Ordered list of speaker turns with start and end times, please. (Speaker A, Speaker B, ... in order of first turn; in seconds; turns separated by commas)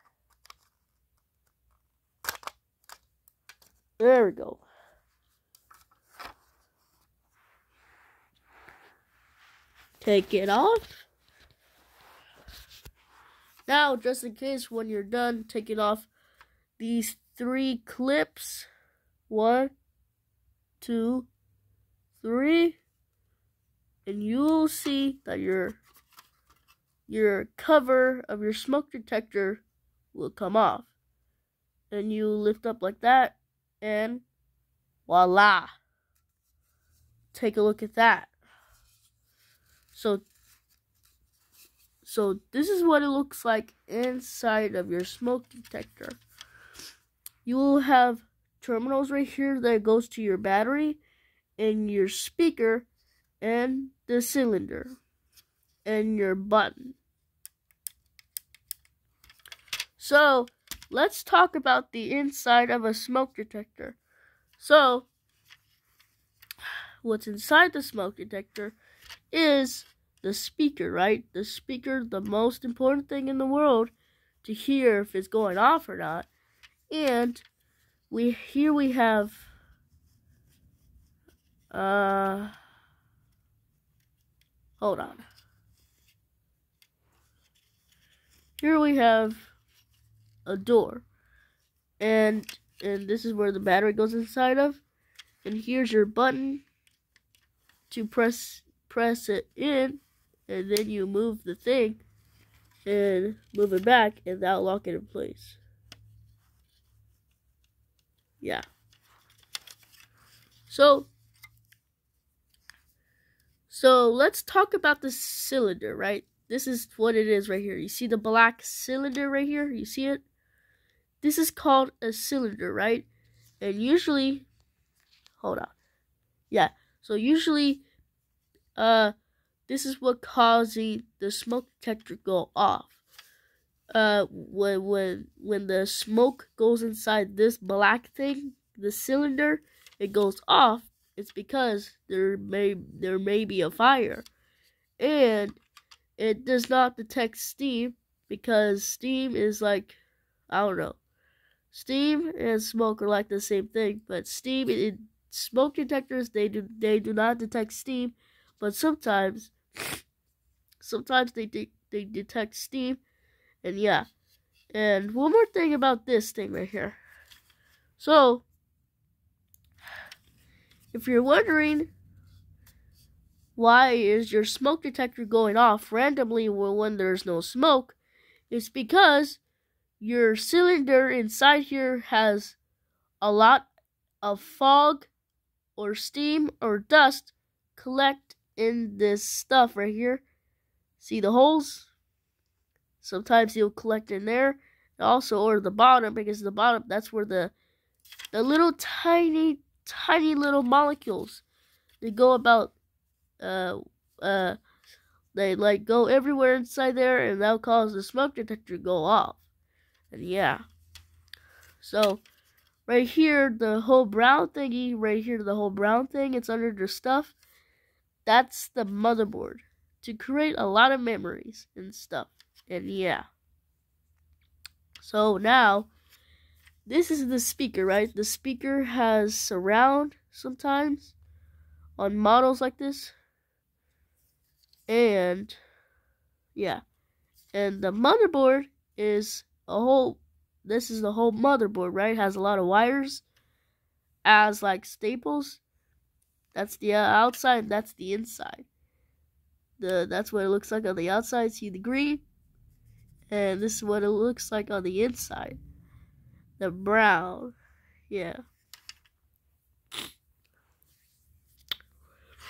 Speaker A: 4.0-4.6, Speaker A: 10.0-11.1, Speaker A: 13.7-16.1, Speaker A: 16.8-18.7, Speaker A: 19.3-19.7, Speaker A: 20.8-21.3, Speaker A: 22.2-22.8, Speaker A: 24.1-25.8, Speaker A: 27.1-29.6, Speaker A: 30.1-30.9, Speaker A: 31.9-34.2, Speaker A: 35.1-35.7, Speaker A: 37.3-38.3, Speaker A: 39.9-40.2, Speaker A: 42.0-46.2, Speaker A: 47.4-51.0, Speaker A: 51.6-52.9, Speaker A: 53.4-54.9, Speaker A: 55.8-57.0, Speaker A: 60.0-64.0, Speaker A: 64.6-65.1, Speaker A: 67.0-68.8, Speaker A: 69.3-73.9, Speaker A: 74.4-76.3, Speaker A: 76.9-77.4, Speaker A: 78.1-79.4, Speaker A: 81.7-82.5, Speaker A: 84.8-85.2, Speaker A: 88.6-89.5, Speaker A: 90.5-91.0, Speaker A: 92.0-94.8, Speaker A: 95.4-96.6, Speaker A: 97.9-102.0, Speaker A: 102.8-105.6, Speaker A: 110.7-111.1, Speaker A: 113.7-120.2, Speaker A: 121.2-123.1, Speaker A: 123.6-124.5, Speaker A: 125.4-125.7, Speaker A: 126.5-127.8, Speaker A: 128.8-129.1, Speaker A: 129.7-132.9, Speaker A: 133.9-144.2, Speaker A: 145.0-145.6, Speaker A: 146.2-150.0, Speaker A: 150.5-151.0, Speaker A: 151.7-159.5, Speaker A: 160.8-163.0, Speaker A: 163.6-164.1, Speaker A: 164.7-167.0, Speaker A: 168.0-168.4, Speaker A: 170.9-171.9, Speaker A: 173.6-178.0, Speaker A: 178.5-179.4, Speaker A: 180.0-182.6, Speaker A: 183.2-183.7, Speaker A: 184.2-185.1, Speaker A: 185.8-190.2, Speaker A: 191.0-191.9, Speaker A: 193.0-197.5, Speaker A: 198.3-201.4, Speaker A: 202.0-202.8, Speaker A: 203.4-204.6, Speaker A: 205.3-209.4, Speaker A: 210.1-210.6, Speaker A: 211.8-212.2, Speaker A: 212.9-217.3, Speaker A: 218.2-223.2, Speaker A: 225.0-225.9, Speaker A: 226.8-231.2, Speaker A: 232.0-233.1, Speaker A: 234.9-235.6, Speaker A: 236.6-236.8, Speaker A: 237.5-243.2, Speaker A: 244.2-245.6, Speaker A: 246.5-248.7, Speaker A: 249.8-252.2, Speaker A: 253.3-255.6, Speaker A: 256.6-257.5, Speaker A: 258.1-258.4